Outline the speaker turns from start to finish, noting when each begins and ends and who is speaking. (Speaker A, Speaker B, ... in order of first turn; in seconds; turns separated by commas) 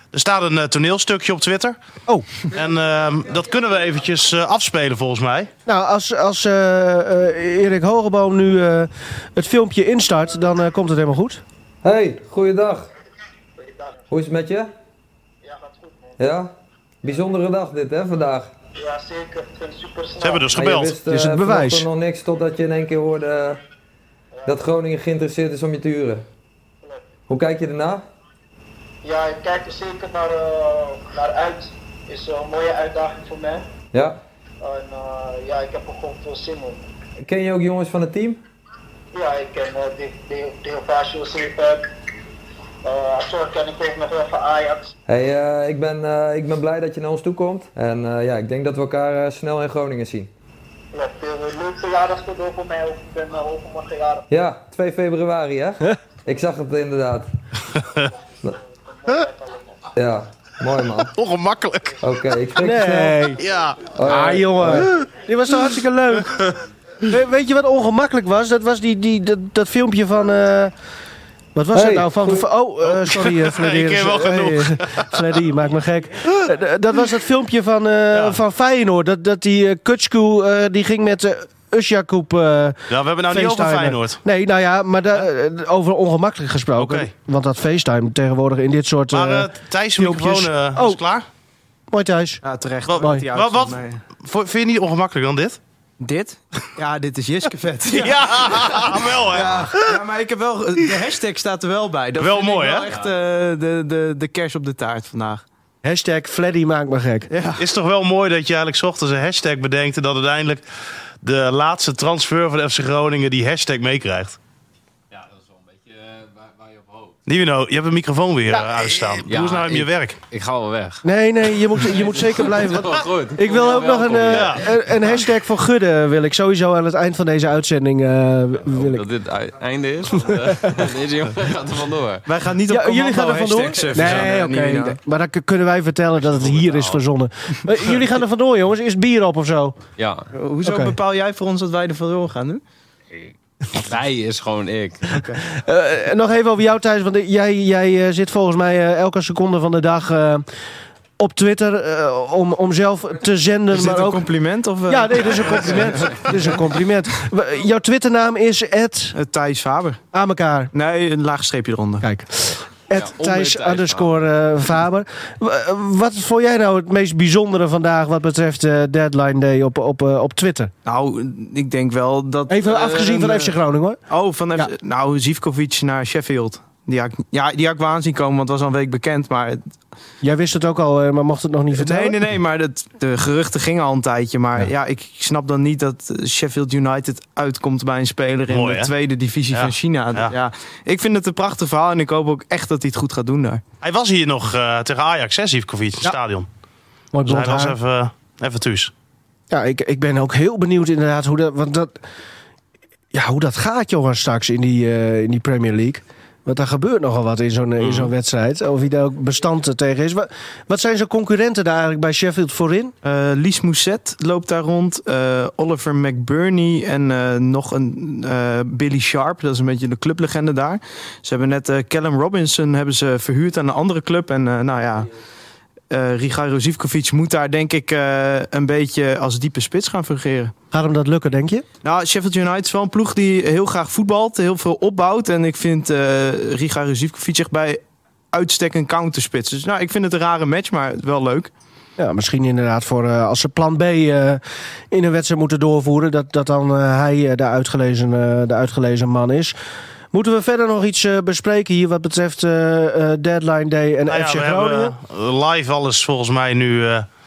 Speaker A: 0.1-1.8, Speaker A: 2.5-5.5, Speaker B: 5.7-11.4, Speaker C: 11.8-12.9, Speaker C: 14.1-14.7, Speaker C: 16.2-16.5, Speaker C: 17.0-18.5, Speaker D: 19.1-19.4, Speaker A: 20.2-20.9, Speaker C: 20.5-23.6, Speaker B: 21.1-21.9, Speaker C: 24.4-26.3, Speaker C: 27.3-28.1, Speaker D: 29.1-33.6, Speaker C: 33.9-34.2, Speaker D: 34.6-36.7, Speaker C: 37.2-38.4, Speaker D: 39.2-41.6, Speaker D: 42.9-44.5, Speaker C: 45.1-50.3, Speaker D: 50.9-54.2, Speaker C: 54.3-57.3, Speaker A: 57.8-58.1, Speaker C: 60.0-61.1, Speaker A: 61.1-62.0, Speaker C: 62.0-63.2, Speaker B: 62.6-63.4, Speaker A: 63.4-63.9, Speaker C: 63.9-64.9, Speaker B: 64.0-66.4, Speaker A: 66.2-66.6, Speaker B: 67.1-70.7, Speaker B: 71.5-91.0, Speaker C: 71.7-72.5, Speaker A: 72.9-75.2, Speaker A: 78.1-78.4, Speaker A: 82.9-84.2, Speaker A: 86.8-87.1, Speaker A: 89.1-91.3, Speaker B: 91.9-92.4, Speaker E: 92.4-94.0, Speaker A: 92.9-95.6, Speaker E: 96.0-105.4, Speaker A: 97.9-100.0, Speaker A: 102.2-102.9, Speaker B: 105.8-107.3, Speaker E: 107.3-107.7, Speaker A: 107.6-110.7, Speaker A: 111.2-114.4, Speaker F: 115.1-117.2, Speaker A: 117.3-120.2, Speaker F: 119.3-121.0, Speaker B: 121.0-129.1, Speaker F: 121.8-125.3, Speaker A: 124.3-124.7, Speaker F: 128.7-132.2, Speaker B: 130.3-130.8, Speaker E: 132.3-135.0, Speaker B: 132.7-139.8, Speaker F: 133.7-134.3, Speaker F: 136.2-137.0, Speaker F: 140.0-140.3, Speaker E: 140.3-142.6, Speaker B: 140.7-140.9, Speaker F: 143.1-145.2, Speaker E: 145.1-145.4, Speaker B: 145.5-150.4, Speaker B: 151.2-154.3, Speaker E: 153.7-156.6, Speaker B: 154.9-159.2, Speaker F: 155.4-156.3, Speaker E: 159.1-160.0, Speaker B: 160.1-160.7, Speaker E: 160.7-162.1, Speaker B: 162.0-170.7, Speaker F: 162.9-164.2, Speaker E: 170.8-173.6, Speaker B: 172.5-174.0, Speaker E: 174.1-179.7, Speaker B: 180.2-182.2, Speaker E: 181.7-193.6, Speaker A: 188.5-188.9, Speaker A: 189.5-190.3, Speaker A: 193.8-196.5, Speaker B: 197.1-197.8, Speaker A: 197.2-198.9, Speaker B: 199.5-202.0, Speaker B: 203.1-212.9, Speaker A: 207.8-208.1, Speaker E: 213.0-225.1, Speaker E: 225.9-230.5, Speaker B: 230.7-231.7, Speaker E: 231.8-237.8, Speaker E: 238.3-241.5, Speaker B: 242.0-249.6, Speaker B: 250.1-254.9, Speaker A: 254.1-257.1